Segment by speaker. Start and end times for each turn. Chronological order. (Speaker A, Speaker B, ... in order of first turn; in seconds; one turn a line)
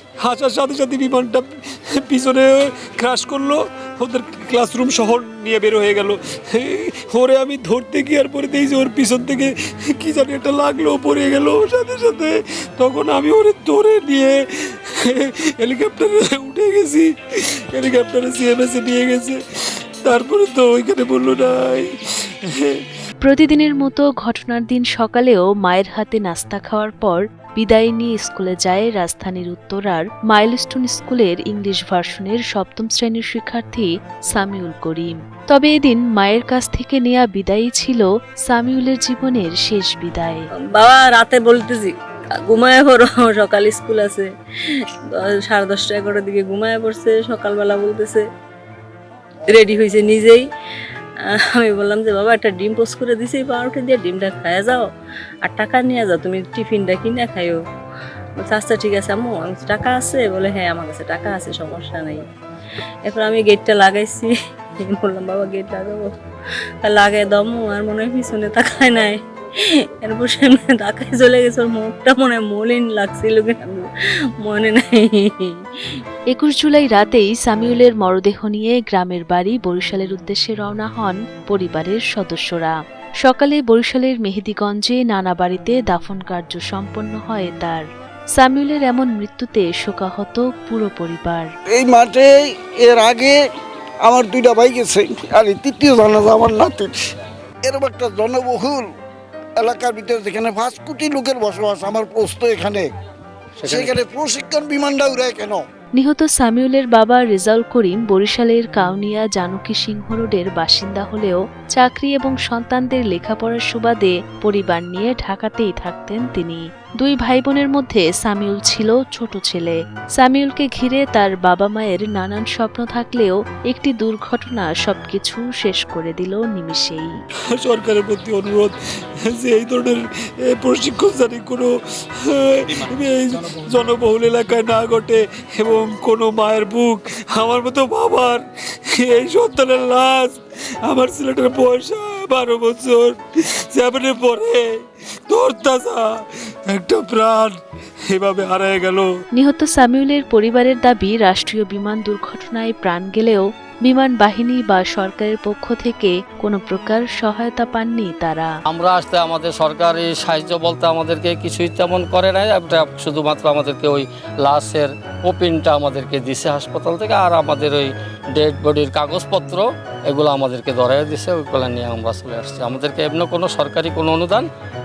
Speaker A: 0.2-14.4
Speaker A: 15.0-17.1
Speaker A: 17.7-19.4
Speaker A: 20.0-21.9
Speaker A: 22.4-22.8
Speaker B: 23.2-40.4
Speaker C: 40.7-41.9
Speaker C: 42.5-48.2
Speaker C: 49.5-50.4
Speaker C: 51.2-54.9
Speaker C: 55.4-57.6
Speaker C: 58.4-62.2
Speaker C: 63.0-66.1
Speaker C: 66.8-73.8
Speaker C: 74.4-75.6
Speaker B: 76.3-87.8
Speaker B: 88.4-91.5
Speaker D: 91.8-92.3
Speaker D: 92.8-93.3
Speaker D: 94.0-96.9
Speaker D: 97.7-98.8
Speaker D: 99.6-102.8
Speaker E: 103.6-104.0
Speaker D: 103.7-105.6
Speaker B: 106.0-127.1
Speaker A: 127.5-128.7
Speaker A: 129.3-131.7
Speaker A: 132.2-143.2
Speaker A: 143.7-144.6
Speaker A: 145.3-146.1
Speaker A: 146.7-147.6
Speaker A: 148.1-149.1
Speaker B: 149.3-158.5
Speaker E: 158.7-174.4